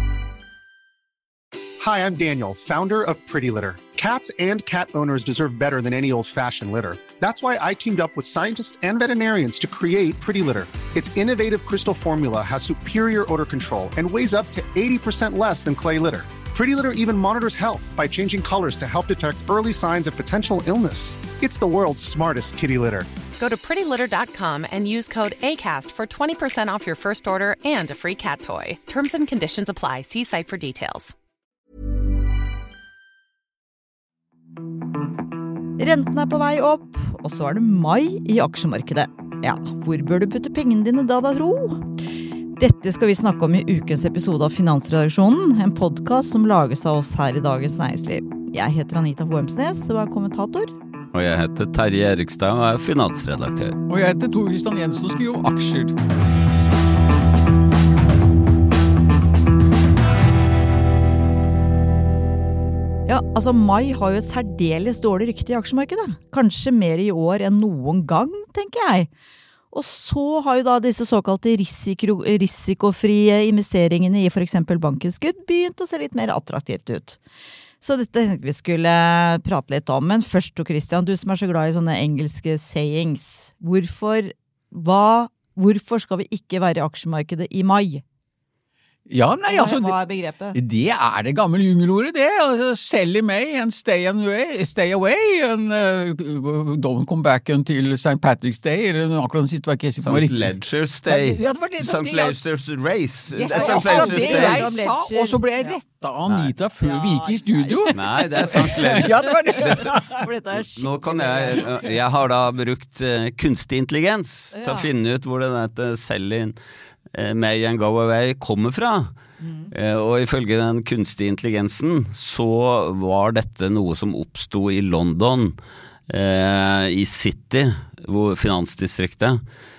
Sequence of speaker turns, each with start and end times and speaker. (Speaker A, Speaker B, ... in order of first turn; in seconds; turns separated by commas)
Speaker A: 1.8-23.1, Speaker B: 23.4-31.1, Speaker C: 35.8-41.9, Speaker C: 42.6-50.7, Speaker D: 51.1-53.8, Speaker E: 53.9-55.9, Speaker C: 63.1-69.1, Speaker C: 69.7-77.2, Speaker C: 77.8-88.0, Speaker E: 89.1-90.0, Speaker C: 89.5-90.6, Speaker E: 90.5-100.5, Speaker D: 100.0-104.8, Speaker E: 101.0-102.3, Speaker E: 103.3-110.3, Speaker C: 103.5-105.8, Speaker D: 106.3-106.5, Speaker C: 106.8-111.7, Speaker D: 107.9-109.8, Speaker D: 110.8-116.5, Speaker C: 114.5-114.9, Speaker D: 117.1-119.1, Speaker C: 119.4-119.7, Speaker D: 119.7-125.5, Speaker D: 126.1-129.4